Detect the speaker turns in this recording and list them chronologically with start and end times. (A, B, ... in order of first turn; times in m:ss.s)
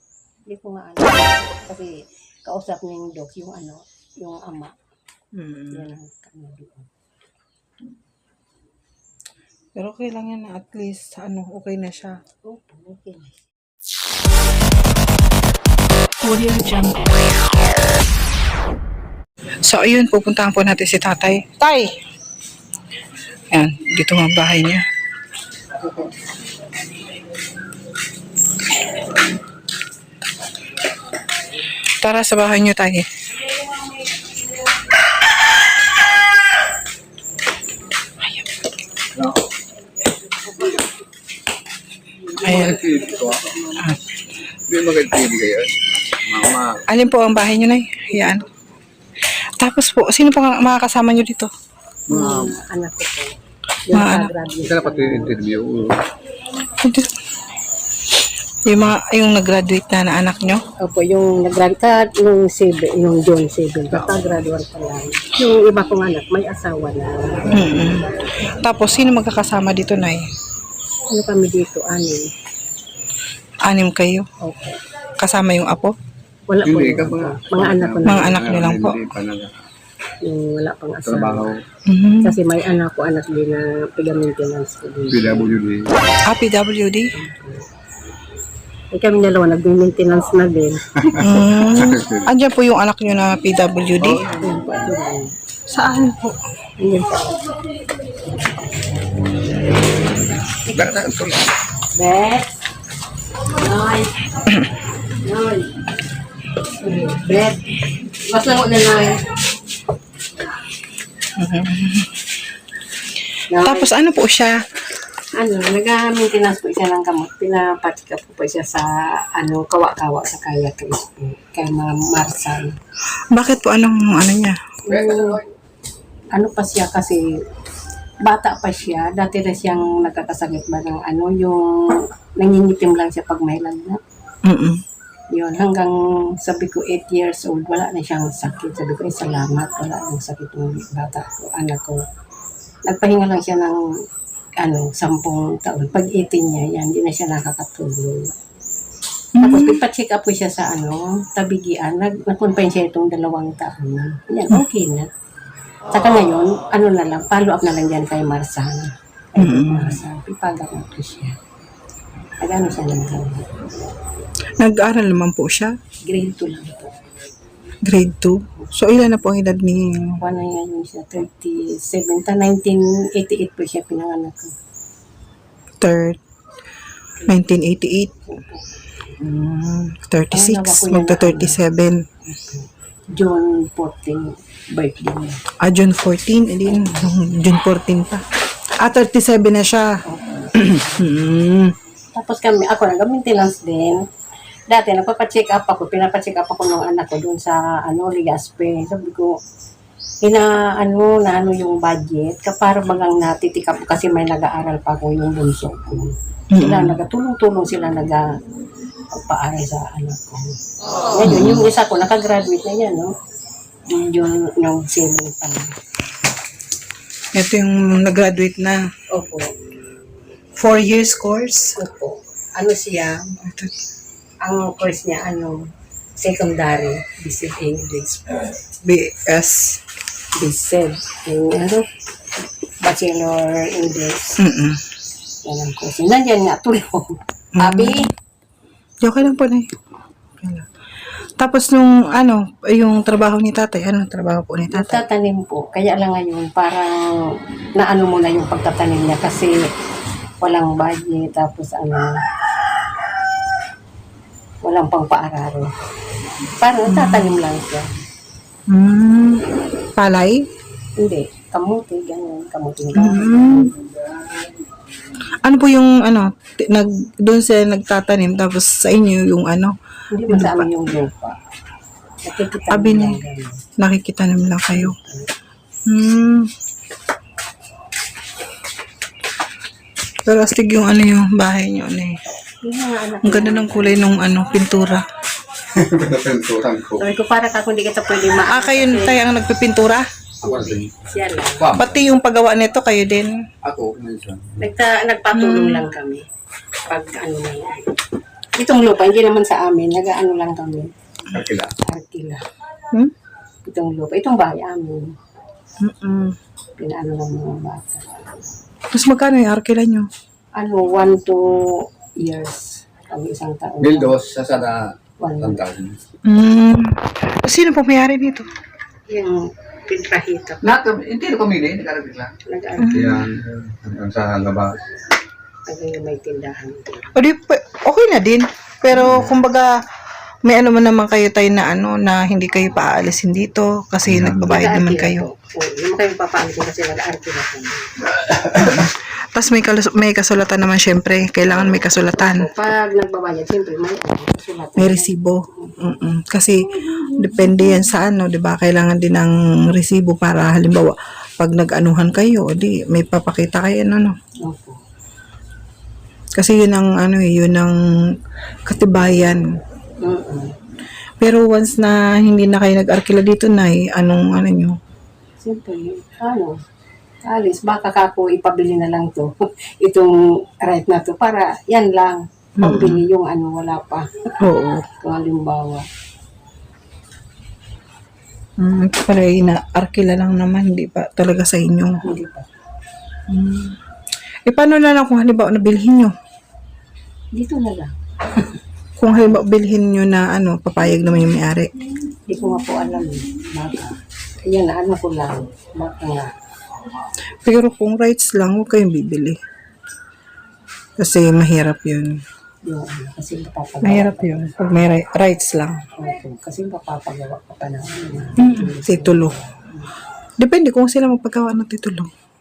0:00.5-0:04.7 A
0:05.3-0:05.9 B
0:05.7-0:06.9 A
0:09.8-0:12.2 B
0:12.4-0:13.5 A
0:19.7-0:22.0 B
0:23.5-0:24.8 B
0:32.0-0:33.1 B
0:42.2-0:43.8 A
0:42.4-0:43.6 C
0:42.5-0:42.8 B
0:44.7-0:46.8 C
0:46.9-0:48.4 B
0:49.6-0:51.5 B
0:52.1-0:52.6 C
0:52.1-0:55.4 A
0:53.9-0:54.3 B
0:54.6-0:56.0 C
0:56.7-0:57.2 B
0:58.7-1:00.6 B
1:00.8-1:07.7 A
1:07.5-1:10.3 B
1:11.1-1:12.3 A
1:13.6-1:14.3 B
1:14.4-1:14.8 A
1:15.2-1:15.9 B
1:16.5-1:18.6 A
1:16.6-1:19.5 C
1:18.0-1:19.0 B
1:20.2-1:21.5 A
1:21.0-1:21.5 C
1:21.9-1:22.4 B
1:22.2-1:25.5 A
1:25.1-1:26.0 C
1:26.2-1:27.1 B
1:27.1-1:27.7 A
1:28.9-1:31.2 A
1:31.2-1:34.2 B
1:31.5-1:32.2 C
1:34.0-1:34.5 C
1:34.3-1:35.3 A
1:35.7-1:36.4 B
1:36.8-1:37.5 A
1:40.7-1:41.5 C
1:42.0-1:42.6 A
1:43.4-1:44.2 A
1:45.1-1:45.8 A
1:46.6-1:49.2 A
1:51.4-1:52.2 B
1:53.5-1:53.9 A
1:53.6-1:54.6 B
1:55.3-2:02.8 A
2:03.3-2:04.6 B
2:04.8-2:05.4 A
2:04.9-2:05.3 C
2:06.3-2:07.2 A
2:08.2-2:14.0 A
2:14.4-2:14.8 B
2:15.3-2:22.0 A
2:22.9-2:23.8 A
2:24.6-2:28.3 A
2:29.4-2:29.8 B
2:29.4-2:35.1 A
2:35.9-2:41.4 A
2:39.4-2:40.0 B
2:42.4-2:43.5 A
2:44.6-2:45.8 B
2:46.1-2:46.9 A
2:47.8-2:50.2 B
2:50.2-2:54.6 A
2:55.8-2:56.2 B
2:57.3-2:58.2 B
2:58.3-2:58.8 A
2:59.2-3:02.0 B
3:00.3-3:01.6 A
3:02.2-3:05.4 A
3:05.6-3:08.2 B
3:08.8-3:10.0 B
3:10.0-3:11.1 A
3:10.6-3:11.8 B
3:12.1-3:14.0 A
3:14.7-3:19.4 A
3:20.2-3:28.3 A
3:26.5-3:27.0 B
3:29.1-3:30.6 A
3:31.1-3:33.1 A
3:31.2-3:31.7 B
3:33.9-3:35.8 A
3:37.3-3:38.9 B
3:39.1-3:39.5 A
3:40.6-3:41.8 B
3:41.8-3:43.4 A
3:43.4-3:43.7 B
3:44.4-3:48.5 A
3:48.8-3:49.8 B
3:50.4-3:51.8 A
3:52.8-3:54.4 A
3:54.4-3:54.8 B
3:55.4-3:58.1 A
3:57.6-3:58.0 B
3:59.0-3:59.7 B
4:00.4-4:00.7 B
4:01.4-4:05.0 B
4:04.7-4:09.6 A
4:10.4-4:12.2 A
4:14.6-4:15.7 A
4:16.6-4:17.9 A
4:16.9-4:17.3 B
4:18.7-4:19.4 B
4:20.0-4:20.5 B
4:21.0-4:23.8 A
4:23.0-4:23.8 B
4:25.4-4:29.8 B
4:30.1-4:31.4 A
4:30.3-4:30.7 B
4:32.2-4:33.6 A
4:32.7-4:33.2 B
4:33.8-4:35.0 B
4:34.7-4:35.3 A
4:35.9-4:36.5 B
4:40.3-4:42.2 B
4:42.6-4:44.1 A
4:43.2-4:45.0 B
4:45.7-4:47.1 C
4:47.0-4:49.2 A
4:48.4-4:50.1 B
4:50.4-4:50.9 C
4:50.4-4:51.7 A
4:51.6-4:52.1 C
4:51.7-4:53.3 B
4:53.6-4:54.6 C
4:54.6-4:56.2 A
4:55.3-4:55.9 B
4:56.9-4:57.9 A
4:58.6-5:00.9 A
5:01.3-5:01.7 C
5:01.9-5:02.4 A
5:03.6-5:05.2 A
5:05.8-5:06.4 B
5:06.8-5:08.3 A
5:08.9-5:10.1 B
5:10.6-5:14.2 A
5:13.8-5:16.0 C
5:15.2-5:15.6 A
5:16.2-5:18.5 B
5:19.1-5:20.8 A
5:20.6-5:22.4 C
5:22.4-5:23.2 A
5:22.8-5:23.2 B
5:22.9-5:24.8 C
5:25.7-5:27.2 A
5:27.2-5:29.8 B
5:30.4-5:35.3 B
5:34.1-5:34.4 C
5:34.4-5:38.2 A
5:38.3-5:38.7 C
5:38.6-5:42.5 B
5:42.2-5:45.8 A
5:44.8-5:54.1 B
5:54.4-5:54.8 A
5:56.4-5:57.8 B
5:58.7-5:59.4 B
6:00.0-6:00.6 A
6:01.2-6:04.8 B
6:05.4-6:06.6 A
6:07.2-6:14.3 A
6:12.6-6:13.0 B
6:14.4-6:14.8 B
6:15.0-6:15.9 A
6:18.6-6:22.0 B
6:22.0-6:22.5 A
6:23.3-6:23.8 B
6:24.5-6:26.1 B
6:27.3-6:28.6 A
6:29.0-6:31.7 B
6:32.3-6:36.3 A
6:37.4-6:39.4 B
6:41.0-6:42.2 B
6:42.6-6:44.4 A
6:43.8-6:45.8 B
6:46.0-6:49.9 A
6:48.4-6:49.4 B
6:50.4-6:52.1 B